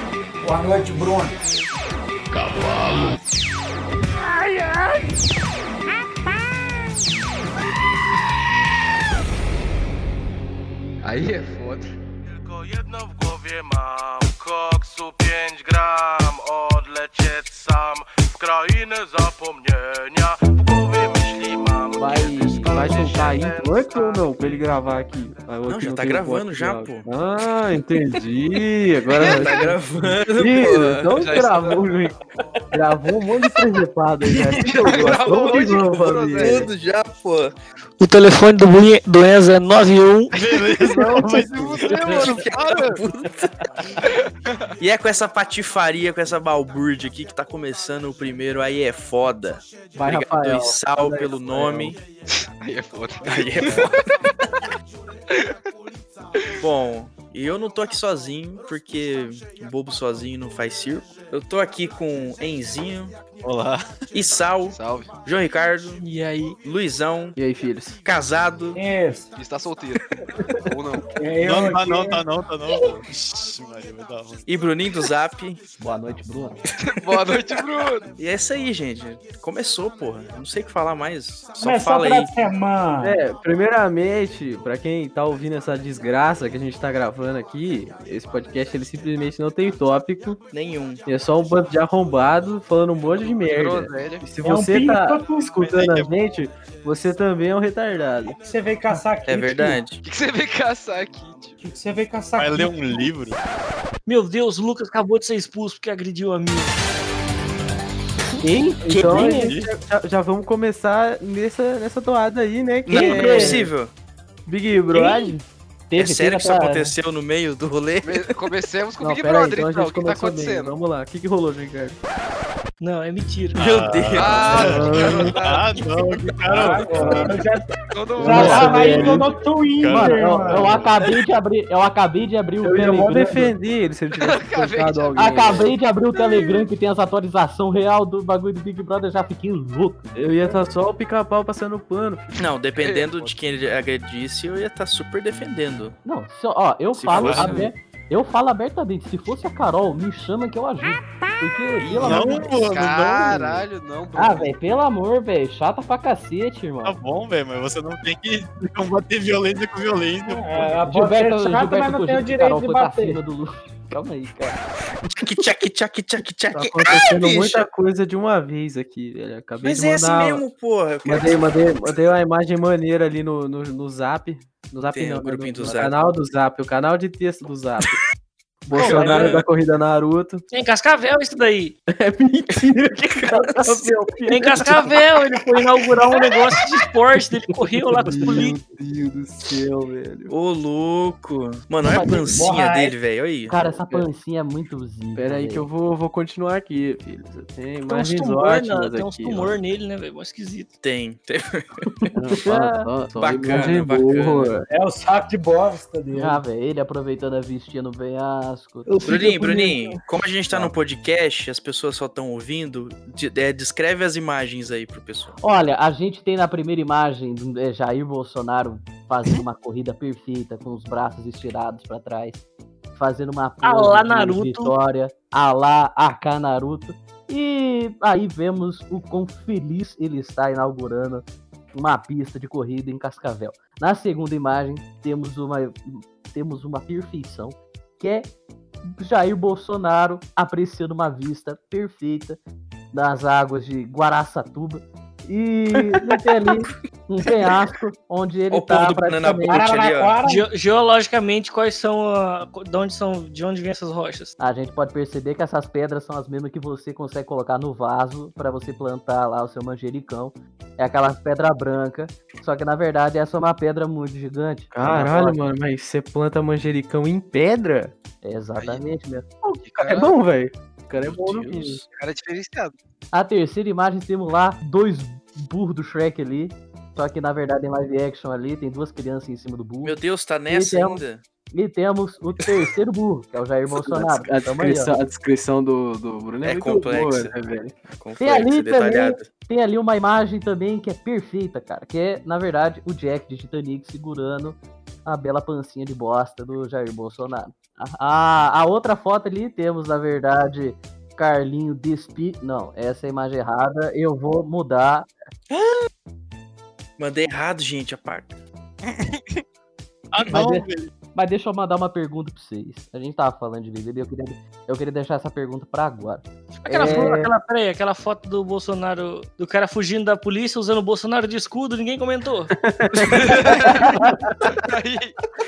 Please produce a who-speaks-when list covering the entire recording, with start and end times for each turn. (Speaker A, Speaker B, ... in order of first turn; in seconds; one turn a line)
Speaker A: 4.4-4.8
Speaker B: 11.0-11.9
Speaker A: 12.3-25.0
Speaker C: 22.0-32.1
Speaker D: 25.7-27.1
Speaker D: 29.1-31.1
Speaker B: 31.2-32.0
Speaker C: 32.7-36.7
Speaker B: 34.8-36.7
Speaker D: 36.4-37.5
Speaker E: 38.0-40.3
Speaker F: 40.3-43.0
Speaker C: 40.9-42.3
Speaker D: 41.9-43.5
Speaker D: 44.8-52.0
Speaker C: 49.9-51.9
Speaker G: 50.1-51.8
Speaker B: 52.3-53.9
Speaker D: 53.3-54.0
Speaker D: 56.6-63.2
Speaker F: 63.4-64.0
Speaker D: 64.1-66.0
Speaker B: 64.7-65.1
Speaker E: 66.0-66.6
Speaker D: 66.6-67.4
Speaker C: 67.3-68.0
Speaker D: 68.0-68.8
Speaker H: 68.7-69.3
Speaker B: 69.3-70.1
Speaker B: 70.7-71.2
Speaker H: 71.2-72.2
Speaker F: 71.4-74.5
Speaker D: 74.5-75.6
Speaker G: 75.8-76.6
Speaker B: 76.8-78.0
Speaker D: 77.1-77.4
Speaker D: 78.2-82.3
Speaker H: 81.6-83.2
Speaker C: 83.0-90.4
Speaker D: 90.5-91.0
Speaker C: 91.0-98.4
Speaker B: 93.1-94.2
Speaker H: 94.4-95.5
Speaker F: 95.5-96.1
Speaker H: 98.4-99.8
Speaker D: 99.3-100.0
Speaker B: 100.0-101.7
Speaker H: 101.6-103.1
Speaker F: 102.4-103.4
Speaker E: 104.0-106.7
Speaker G: 108.4-109.5
Speaker C: 108.8-113.7
Speaker D: 108.9-109.3
Speaker F: 109.0-109.7
Speaker D: 112.8-113.9
Speaker G: 112.9-113.7
Speaker C: 114.5-115.3
Speaker G: 114.9-116.9
Speaker D: 116.0-118.3
Speaker B: 118.0-120.7
Speaker C: 119.0-122.0
Speaker E: 122.8-123.6
Speaker D: 123.5-124.8
Speaker F: 123.5-127.4
Speaker B: 124.2-125.9
Speaker C: 124.5-125.2
Speaker H: 126.5-130.9
Speaker B: 127.9-129.0
Speaker G: 128.2-129.3
Speaker C: 128.3-128.8
Speaker F: 128.3-130.9
Speaker G: 129.8-133.5
Speaker C: 132.6-135.8
Speaker B: 134.2-135.7
Speaker G: 135.2-140.1
Speaker C: 140.1-142.4
Speaker D: 142.4-145.9
Speaker B: 142.8-143.4
Speaker G: 146.0-152.5
Speaker D: 146.9-147.7
Speaker F: 147.1-147.6
Speaker D: 151.8-152.5
Speaker F: 152.0-153.7
Speaker B: 152.6-154.5
Speaker G: 154.1-157.0
Speaker F: 156.8-160.8
Speaker H: 160.3-163.2
Speaker G: 160.8-164.6
Speaker D: 165.1-167.7
Speaker C: 166.5-170.4
Speaker D: 169.6-171.9
Speaker C: 171.0-178.0
Speaker D: 174.9-176.1
Speaker C: 178.6-180.4
Speaker D: 178.7-179.5
Speaker E: 178.8-179.2
Speaker E: 180.5-181.7
Speaker C: 181.9-184.9
Speaker D: 183.1-183.8
Speaker E: 184.3-188.6
Speaker C: 188.1-190.3
Speaker D: 190.3-193.6
Speaker G: 191.8-192.5
Speaker H: 192.3-192.9
Speaker G: 193.5-195.7
Speaker C: 193.5-194.1
Speaker C: 195.1-199.6
Speaker E: 197.9-200.7
Speaker D: 200.8-202.1
Speaker G: 202.0-202.9
Speaker C: 202.1-204.7
Speaker D: 203.1-204.5
Speaker H: 204.7-206.4
Speaker G: 206.1-208.9
Speaker E: 208.8-210.0
Speaker D: 209.0-215.4
Speaker G: 215.4-222.4
Speaker G: 222.9-238.3
Speaker E: 223.6-224.7
Speaker G: 238.8-242.4
Speaker G: 242.9-249.7
Speaker C: 245.8-246.0
Speaker D: 248.5-250.2
Speaker H: 249.5-250.5
Speaker E: 250.2-254.3
Speaker G: 254.4-265.4
Speaker C: 264.7-267.9
Speaker G: 268.2-269.3
Speaker C: 269.4-271.8
Speaker B: 269.6-270.1
Speaker D: 271.0-271.6
Speaker B: 271.9-272.8
Speaker G: 273.1-284.9
Speaker D: 279.8-281.2
Speaker C: 283.8-287.8
Speaker D: 286.4-289.3
Speaker G: 288.2-305.1
Speaker D: 305.5-305.9
Speaker D: 307.0-308.4
Speaker F: 308.8-309.4
Speaker F: 310.2-310.9
Speaker G: 310.3-317.3
Speaker E: 316.5-322.5
Speaker C: 316.8-317.2
Speaker C: 322.6-323.5
Speaker B: 323.3-323.8
Speaker G: 323.5-324.0
Speaker B: 324.6-325.1